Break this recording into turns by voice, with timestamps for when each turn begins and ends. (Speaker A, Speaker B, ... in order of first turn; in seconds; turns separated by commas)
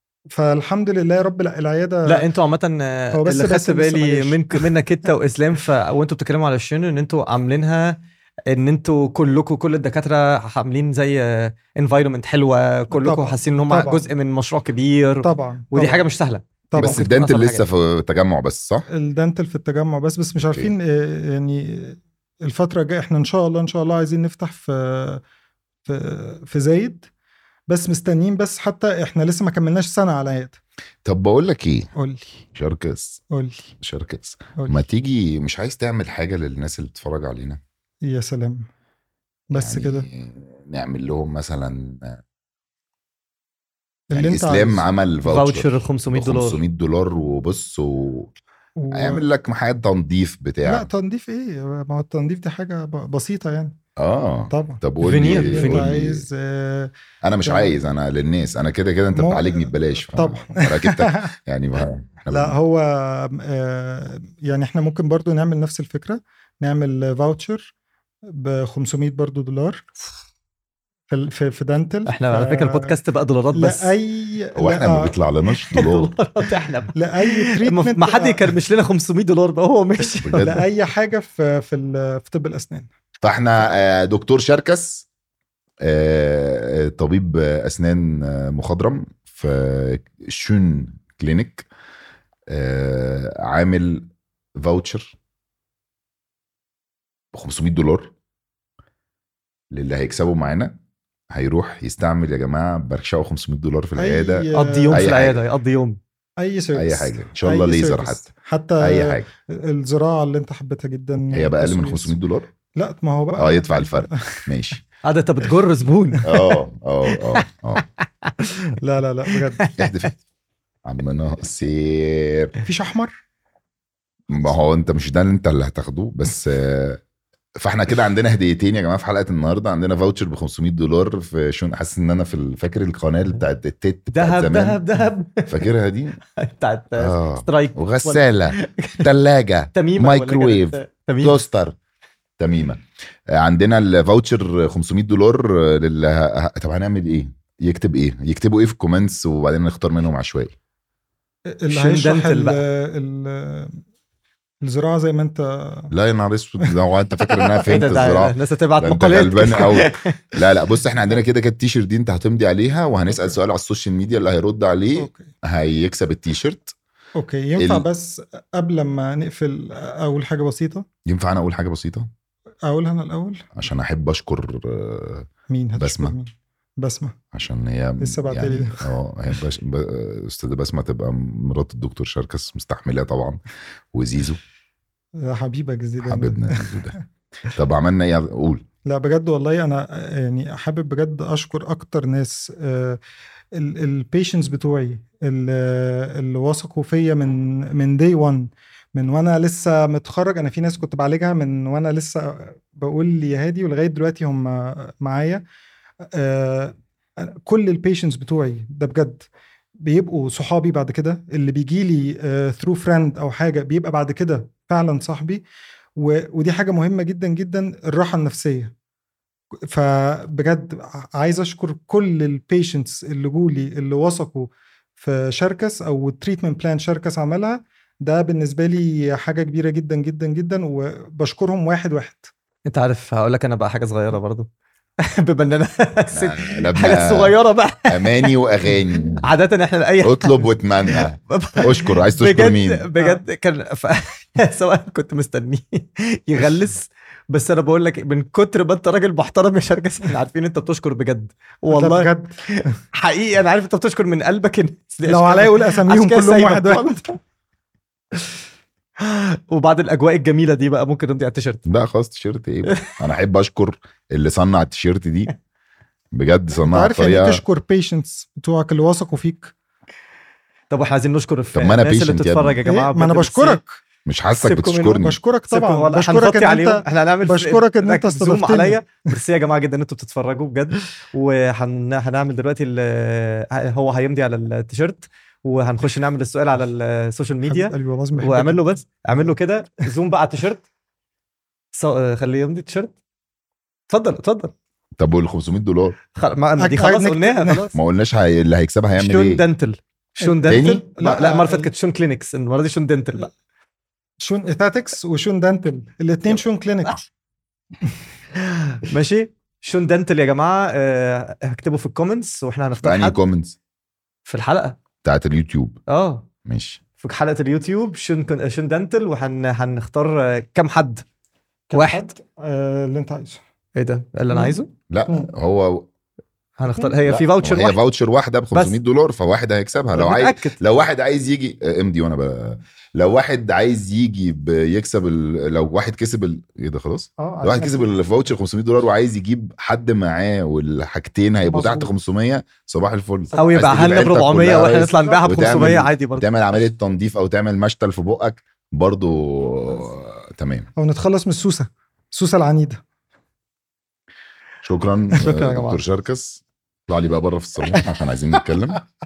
Speaker A: 0.3-2.3, Speaker B: 2.0-17.6, Speaker A: 3.1-4.7, Speaker A: 12.9-14.1, Speaker A: 15.2-16.0, Speaker A: 16.7-17.0, Speaker C: 16.7-18.9, Speaker A: 18.9-25.2, Speaker C: 20.4-20.7, Speaker A: 25.9-27.1, Speaker A: 27.7-30.6, Speaker C: 31.0-31.9, Speaker A: 31.9-32.4, Speaker C: 32.5-33.2, Speaker A: 33.3-33.7, Speaker C: 33.8-37.6, Speaker A: 34.6-34.8, Speaker A: 38.0-38.7, Speaker A: 39.5-40.1, Speaker C: 39.5-42.2, Speaker A: 44.1-44.8, Speaker C: 44.1-48.3, Speaker B: 45.2-46.6, Speaker A: 48.8-49.2, Speaker C: 48.9-50.9, Speaker A: 50.6-53.8, Speaker C: 54.0-56.2, Speaker A: 54.5-54.8, Speaker B: 55.0-55.8, Speaker A: 55.4-56.9, Speaker C: 57.2-62.5, Speaker A: 57.4-57.7, Speaker A: 59.1-61.3, Speaker A: 62.3-67.7, Speaker A: 68.2-69.8, Speaker A: 71.1-72.9, Speaker B: 72.0-73.9, Speaker A: 73.5-75.1, Speaker C: 74.5-76.1, Speaker B: 75.7-80.6, Speaker A: 76.9-78.5, Speaker C: 80.2-80.6, Speaker A: 80.4-82.9, Speaker C: 83.2-85.0, Speaker C: 85.8-91.7, Speaker C: 92.5-95.2, Speaker C: 97.3-98.1, Speaker C: 99.7-100.8, Speaker C: 101.3-105.4, Speaker A: 104.0-105.1, Speaker B: 104.5-106.0, Speaker A: 106.4-112.2, Speaker C: 106.7-108.3, Speaker C: 108.8-109.3, Speaker C: 111.3-112.5, Speaker A: 112.7-114.5, Speaker C: 113.4-114.8, Speaker B: 115.0-116.4, Speaker C: 116.2-117.8, Speaker B: 118.2-118.6, Speaker A: 118.7-119.7, Speaker B: 119.3-119.9, Speaker C: 119.8-120.2, Speaker C: 120.8-122.5, Speaker A: 122.7-123.2, Speaker C: 124.3-127.0, Speaker C: 127.6-134.8, Speaker B: 134.1-135.7, Speaker C: 135.5-136.2, Speaker B: 136.4-139.1, Speaker C: 137.0-141.8, Speaker B: 139.7-141.4, Speaker C: 142.4-150.5, Speaker A: 151.5-153.8, Speaker B: 151.7-152.6, Speaker A: 154.6-155.9, Speaker C: 155.9-166.7, Speaker A: 157.3-157.8, Speaker B: 157.7-160.2, Speaker A: 165.0-165.2, Speaker A: 167.2-170.8, Speaker C: 167.6-167.8, Speaker C: 171.1-172.1, Speaker A: 172.6-173.5, Speaker C: 173.5-176.1, Speaker A: 175.5-177.2, Speaker C: 177.3-183.4, Speaker A: 178.0-178.9, Speaker C: 183.9-184.4, Speaker A: 185.2-186.9, Speaker C: 186.0-187.0, Speaker C: 187.5-188.6, Speaker A: 188.8-193.0, Speaker A: 193.5-205.4, Speaker A: 206.1-209.3, Speaker A: 209.8-215.4, Speaker A: 215.9-218.7, Speaker A: 219.7-232.3, Speaker B: 232.7-234.5, Speaker B: 235.0-238.3, Speaker C: 236.1-239.3, Speaker B: 239.2-257.1, Speaker C: 240.0-242.8, Speaker A: 251.7-252.4, Speaker A: 255.1-257.1, Speaker B: 259.0-261.6, Speaker C: 261.6-265.3, Speaker C: 266.1-267.4, Speaker A: 266.6-269.5, Speaker B: 270.7-273.6, Speaker C: 271.5-272.6, Speaker A: 272.6-273.8, Speaker C: 274.1-275.2, Speaker B: 274.4-290.6, Speaker A: 275.0-278.9, Speaker A: 287.4-288.6, Speaker B: 291.7-292.9, Speaker B: 293.9-294.5, Speaker C: 295.0-296.0, Speaker B: 296.1-297.7, Speaker A: 296.6-297.7, Speaker C: 297.7-299.4, Speaker B: 299.0-303.3, Speaker A: 300.2-301.7, Speaker C: 300.5-300.9, Speaker A: 304.2-307.0, Speaker B: 308.4-313.2, Speaker C: 312.8-313.6, Speaker B: 314.3-314.8, Speaker C: 315.0-315.8, Speaker B: 315.9-316.2, Speaker C: 316.4-316.8, Speaker B: 317.0-321.0, Speaker A: 321.7-323.4, Speaker B: 321.7-322.1, Speaker B: 323.8-324.7, Speaker A: 324.3-325.3, Speaker C: 324.9-325.9, Speaker B: 326.6-327.8, Speaker A: 326.7-327.0, Speaker C: 327.1-350.7, Speaker B: 329.9-330.6, Speaker A: 337.2-337.9, Speaker A: 341.4-341.9, Speaker A: 343.3-343.7, Speaker B: 343.4-346.3, Speaker A: 345.0-345.8, Speaker A: 350.8-352.8, Speaker C: 354.6-358.8, Speaker B: 355.2-355.8